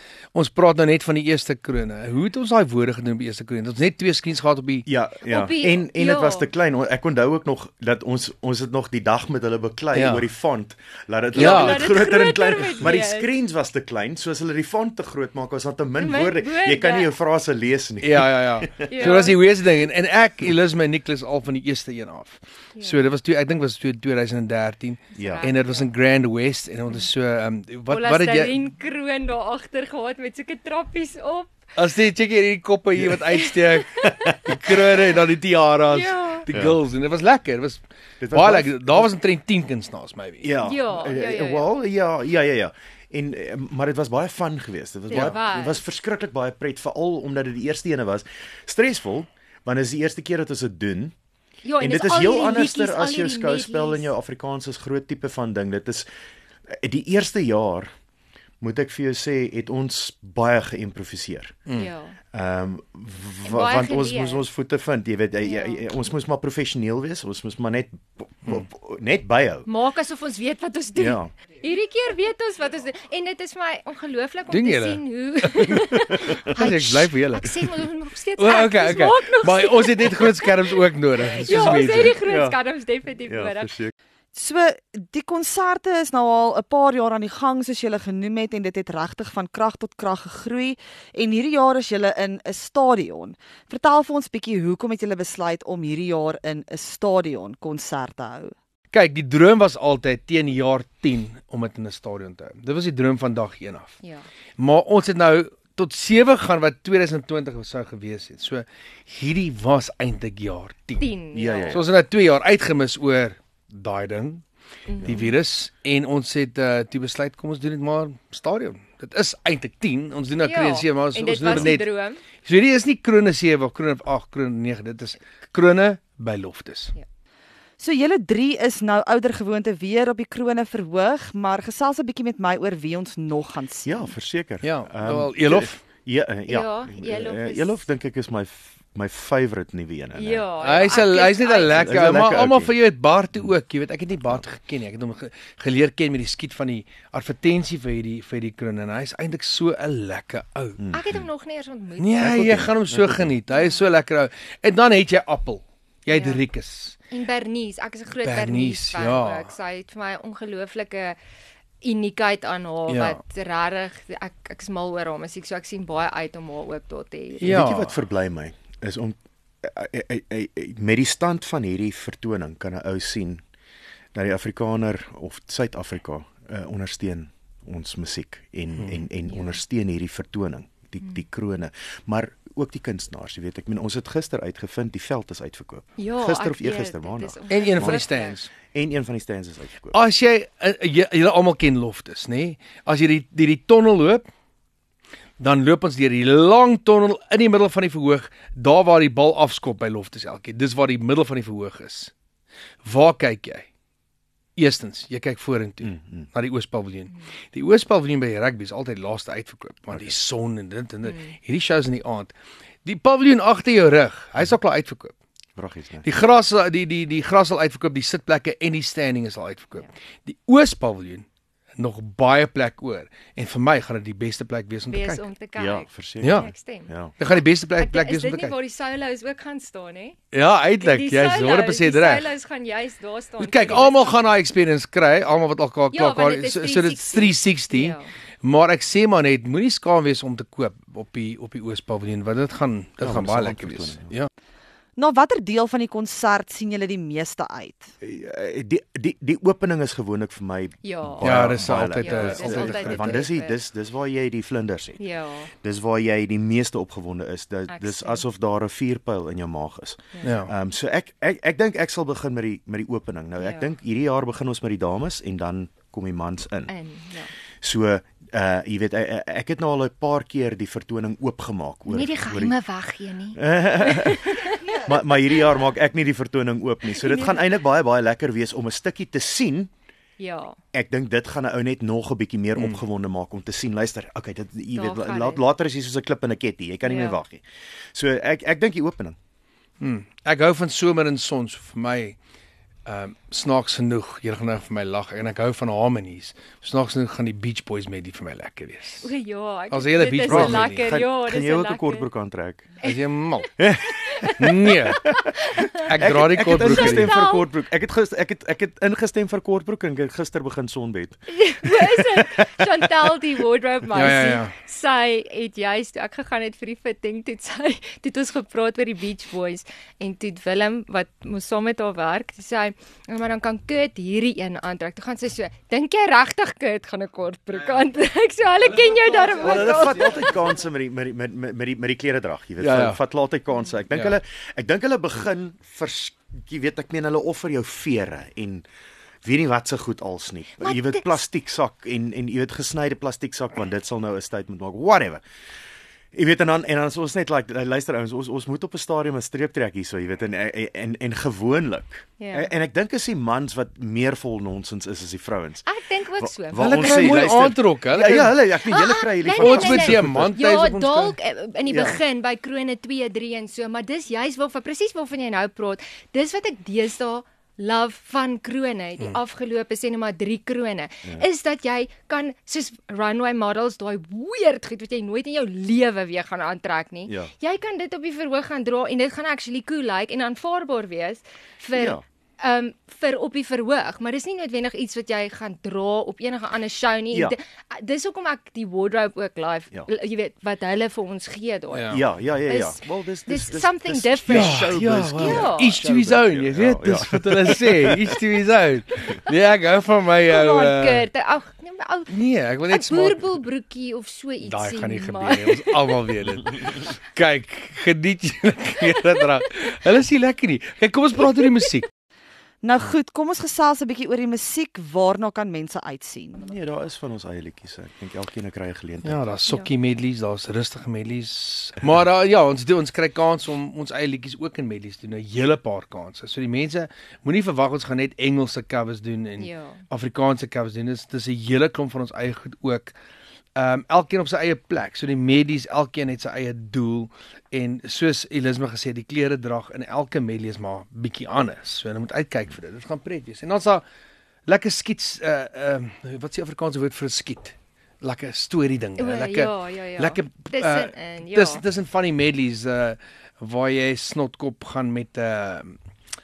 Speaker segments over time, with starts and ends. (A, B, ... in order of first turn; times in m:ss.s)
0:00.3-0:04.9 A
0:04.9-0:19.1 B
0:05.2-0:06.5 C
0:09.9-0:10.3 A
0:11.4-0:11.9 A
0:11.4-0:13.3 C
0:16.0-0:17.1 C
0:18.0-0:28.6 A
0:18.9-0:19.4 C
0:25.2-0:25.9 C
0:25.2-0:25.5 B
0:27.9-0:31.7 C
0:31.8-0:40.6 A
0:33.3-0:34.2 C
0:34.0-0:34.8 B
0:35.9-0:36.4 C
0:36.5-0:36.8 B
0:38.2-0:39.1 B
0:40.4-0:51.1 B
0:40.6-0:41.7 C
0:45.1-0:45.8 C
0:51.6-0:54.1 C
0:51.8-0:56.1 B
0:56.7-0:57.9 B
0:58.6-1:01.6 B
1:01.7-1:02.2 C
1:02.3-1:09.7 B
1:03.4-1:04.4 C
1:05.5-1:05.8 C
1:09.7-1:20.7 C
1:11.0-1:11.3 B
1:14.5-1:17.6 A
1:18.4-1:22.2 A
1:21.2-1:23.7 C
1:21.8-1:22.6 B
1:23.2-1:23.9 B
1:24.3-1:38.6 D
1:38.9-1:44.0 A
1:44.6-1:51.1 A
1:51.0-1:51.8 C
1:51.3-1:51.8 B
1:51.7-1:54.4 A
1:54.9-1:55.4 C
1:55.0-2:01.9 A
2:00.4-2:02.2 C
2:02.4-2:06.9 A
2:07.8-2:14.1 D
2:13.8-2:20.8 B
2:14.6-2:15.8 A
2:16.5-2:17.8 C
2:20.2-2:21.8 C
2:20.6-2:31.0 A
2:21.7-2:22.7 B
2:30.8-2:31.2 B
2:30.9-2:32.7 C
2:32.0-2:37.0 A
2:32.2-2:33.3 B
2:33.5-2:33.9 C
2:36.1-2:36.4 C
2:37.1-2:41.2 C
2:38.2-2:39.5 A
2:41.8-2:47.5 C
2:42.9-2:43.2 A
2:47.4-2:48.0 A
2:47.4-2:53.4 B
2:54.1-3:08.1 B
2:58.8-2:59.0 A
2:59.3-2:59.6 C
3:06.0-3:08.4 C
3:07.5-3:08.5 A
3:08.7-3:10.0 B
3:09.9-3:14.2 A
3:15.4-3:22.1 A
3:22.8-3:23.7 A
3:24.6-3:32.3 A
3:25.8-3:26.3 B
3:31.0-3:31.3 C
3:32.8-3:35.2 A
3:35.6-3:36.1 B
3:36.0-3:41.2 A
3:41.8-3:45.2 A
3:44.9-3:50.2 C
3:45.6-3:47.1 B
3:46.2-3:46.5 A
3:47.2-3:48.6 A
3:50.3-3:52.3 A
3:50.8-3:54.2 C
3:53.4-4:04.3 A
3:55.9-3:58.1 C
4:03.0-4:04.1 B
4:05.0-4:07.9 D
4:08.0-4:15.0 B
4:10.8-4:13.6 C
4:11.2-4:13.2 A
4:15.0-4:15.5 C
4:15.6-4:26.7 B
4:17.7-4:18.2 C
4:20.2-4:20.5 A
4:23.4-4:23.7 C
4:26.7-4:27.3 C
4:27.6-4:32.6 B
4:31.9-4:34.9 C
4:33.4-4:39.7 B
4:36.9-4:37.5 C
4:40.2-4:40.6 C
4:40.7-4:49.2 B
4:42.6-4:42.8 A
4:44.8-4:45.4 C
4:46.8-4:47.2 C
4:49.8-4:52.2 A
4:52.9-4:59.1 A
4:59.0-5:02.1 C
4:59.7-5:00.9 A
5:00.3-5:02.7 B
5:02.8-5:03.6 A
5:02.8-5:05.9 C
5:03.6-5:05.2 B
5:04.4-5:05.1 A
5:05.8-5:07.2 A
5:06.0-5:12.2 B
5:06.6-5:07.5 C
5:11.3-5:30.5 C
5:13.9-5:14.5 A
5:29.4-5:38.6 B
5:32.6-5:33.0 A
5:39.2-5:45.2 B
5:40.6-5:41.2 C
5:46.1-5:55.7 B
5:52.2-5:52.5 C
5:55.7-5:57.3 C
5:56.2-6:00.4 B
5:56.6-5:58.5 A
5:58.6-6:35.8 C
5:59.4-6:01.2 A
6:01.7-6:02.0 B
6:21.8-6:22.0 B
6:31.7-6:32.0 A
6:31.9-6:38.1 B
6:34.3-6:41.1 A
6:40.3-6:42.1 C
6:42.1-6:43.2 A
6:42.7-6:45.9 C
6:44.4-6:51.9 A
6:52.6-6:56.5 D
6:56.4-6:59.2 B
6:59.0-7:12.9 A
7:09.4-7:09.8 C
7:13.6-7:23.8 A
7:24.5-7:35.7 A
7:29.0-7:31.6 C